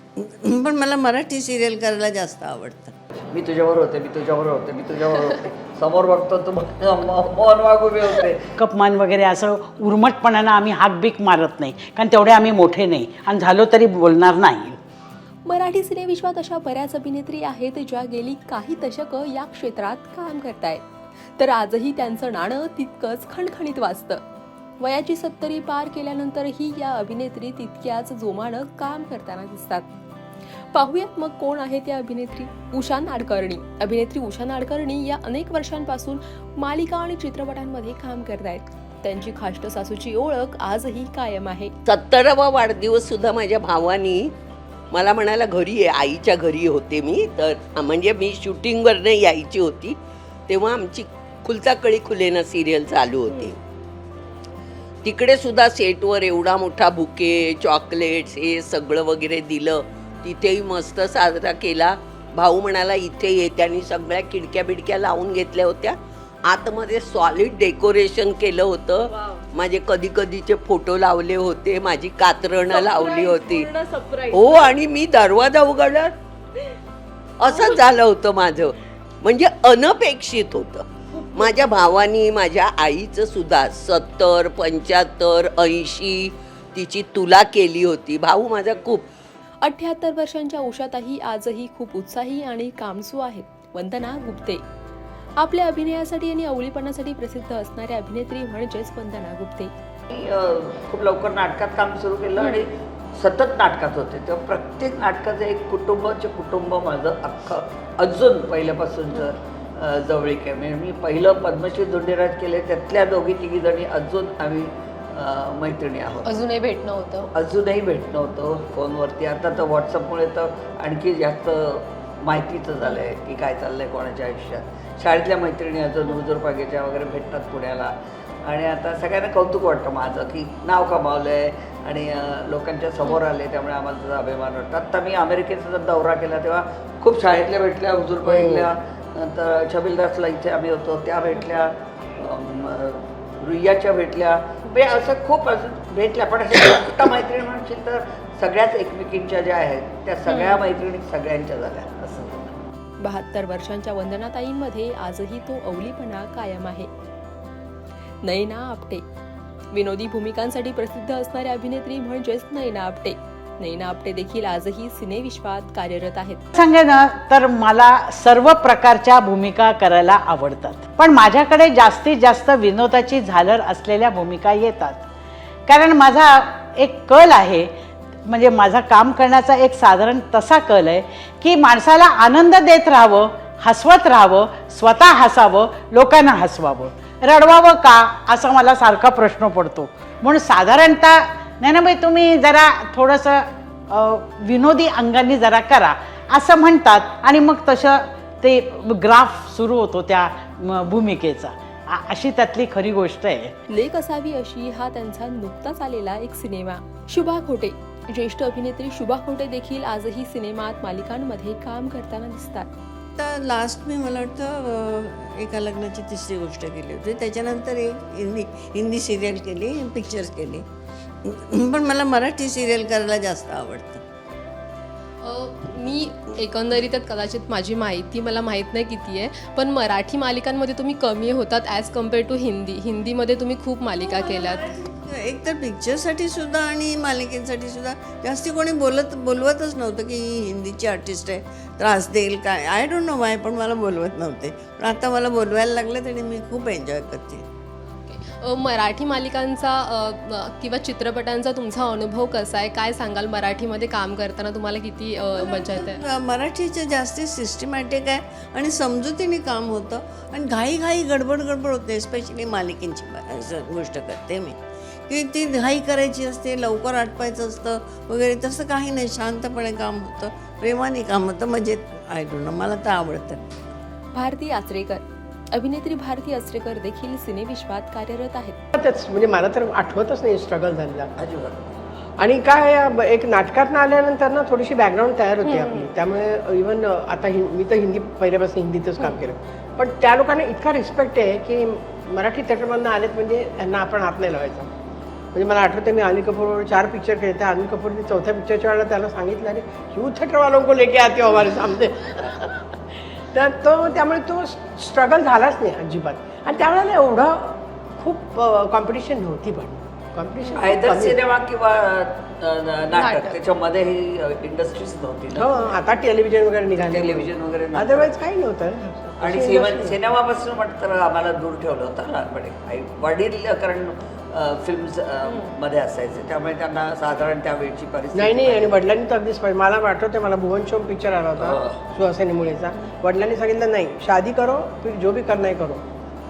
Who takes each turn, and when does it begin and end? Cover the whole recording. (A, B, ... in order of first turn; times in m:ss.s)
0:00.2-0:02.9 A
0:03.3-0:08.4 B
0:08.6-0:14.8 C
0:15.4-0:20.8 D
0:21.4-0:24.2 D
0:24.8-0:29.9 D
0:30.7-0:41.7 D
0:41.8-0:44.3 E
0:44.9-0:53.6 E
0:55.0-1:16.1 E
1:17.4-1:29.1 E
1:29.6-1:34.6 D
1:35.4-1:39.7 D
1:40.1-1:56.3 B
1:56.2-1:57.3 F
1:57.3-2:07.9 B
2:08.4-2:32.5 B
2:18.2-2:18.6 A
2:33.0-2:36.9 D
2:38.2-2:39.0 D
2:39.7-2:46.5 D
2:46.5-2:55.1 C
2:55.6-2:57.7 C
2:58.2-3:23.5 C
3:23.7-3:32.7 D
3:33.2-3:40.6 A
3:41.2-3:44.0 A
3:45.2-3:54.7 F
3:54.0-4:07.4 A
4:08.1-4:16.0 F
4:15.3-4:33.5 A
4:34.1-4:38.6 D
4:38.7-4:41.1 G
4:41.2-4:41.8 B
4:42.2-4:54.7 G
4:45.5-4:45.9 F
4:55.3-5:02.7 G
5:03.3-5:11.2 G
5:10.5-5:15.6 B
5:13.0-5:13.3 F
5:15.3-5:20.0 G
5:16.8-5:18.1 B
5:19.2-5:28.8 B
5:28.1-5:35.8 G
5:31.4-5:31.8 B